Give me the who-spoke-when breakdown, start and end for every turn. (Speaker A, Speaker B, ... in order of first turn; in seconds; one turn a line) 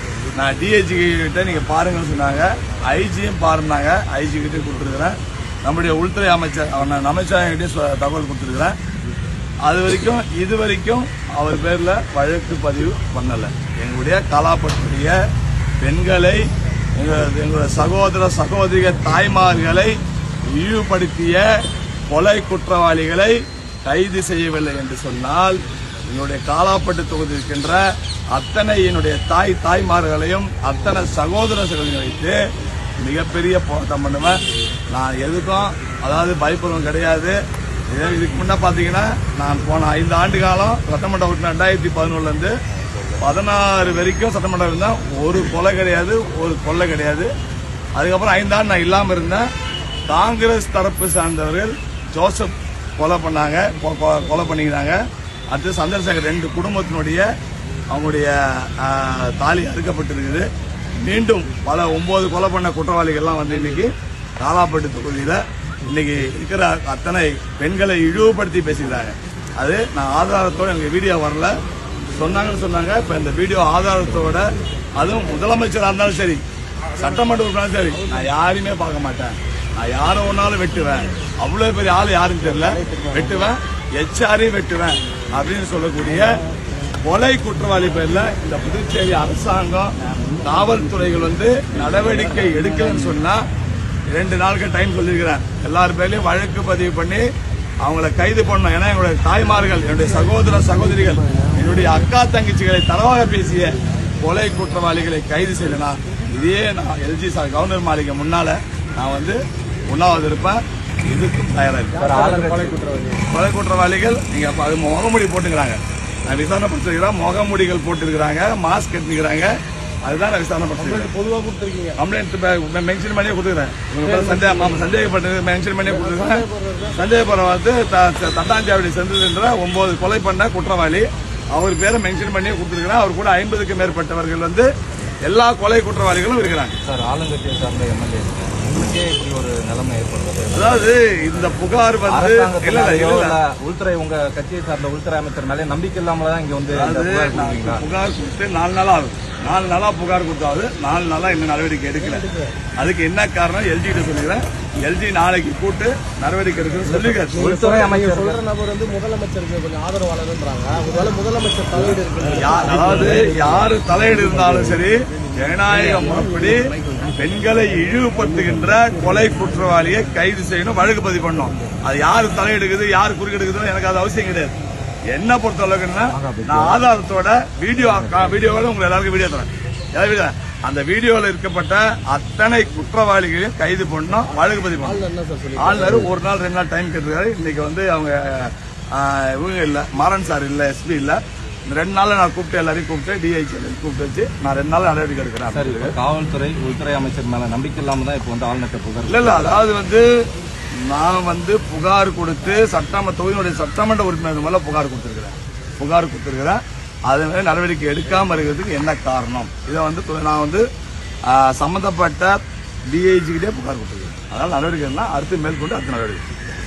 Speaker A: 0.3-8.8
Speaker A: 9.6-15.2
Speaker A: 15.8-16.4
Speaker A: 17.0-19.9
Speaker A: 20.5-21.4
Speaker A: 22.1-32.4
Speaker A: 33.0-34.4
Speaker A: 34.9-37.4
Speaker A: 37.9-42.5
Speaker A: 43.2-47.3
Speaker A: 48.0-49.5
Speaker A: 50.1-55.0
Speaker A: 55.5-57.3
Speaker A: 57.9-60.5
Speaker A: 61.0-71.5
Speaker A: 72.1-76.4
Speaker A: 76.9-86.4
Speaker A: 87.0-93.4
Speaker A: 94.1-97.3
Speaker A: 97.8-112.0
Speaker B: 111.9-113.2
Speaker C: 112.0-112.8
Speaker A: 113.3-119.5
Speaker A: 120.0-121.1
Speaker B: 120.8-122.0
Speaker A: 122.0-134.7
Speaker B: 124.0-124.8
Speaker B: 125.8-127.0
Speaker A: 135.2-136.7
Speaker C: 136.8-140.9
Speaker A: 140.5-143.4
Speaker C: 142.1-147.8
Speaker A: 146.7-152.2
Speaker B: 152.0-152.6
Speaker A: 152.8-157.5
Speaker C: 156.8-158.4
Speaker B: 157.3-163.5
Speaker A: 162.3-174.5
Speaker B: 166.2-167.0
Speaker A: 175.1-185.1
Speaker C: 176.1-176.8
Speaker C: 177.8-178.3
Speaker B: 184.7-186.1
Speaker A: 185.6-195.9
Speaker C: 195.5-199.6
Speaker A: 199.1-200.1
Speaker A: 200.8-210.6
Speaker A: 211.2-216.2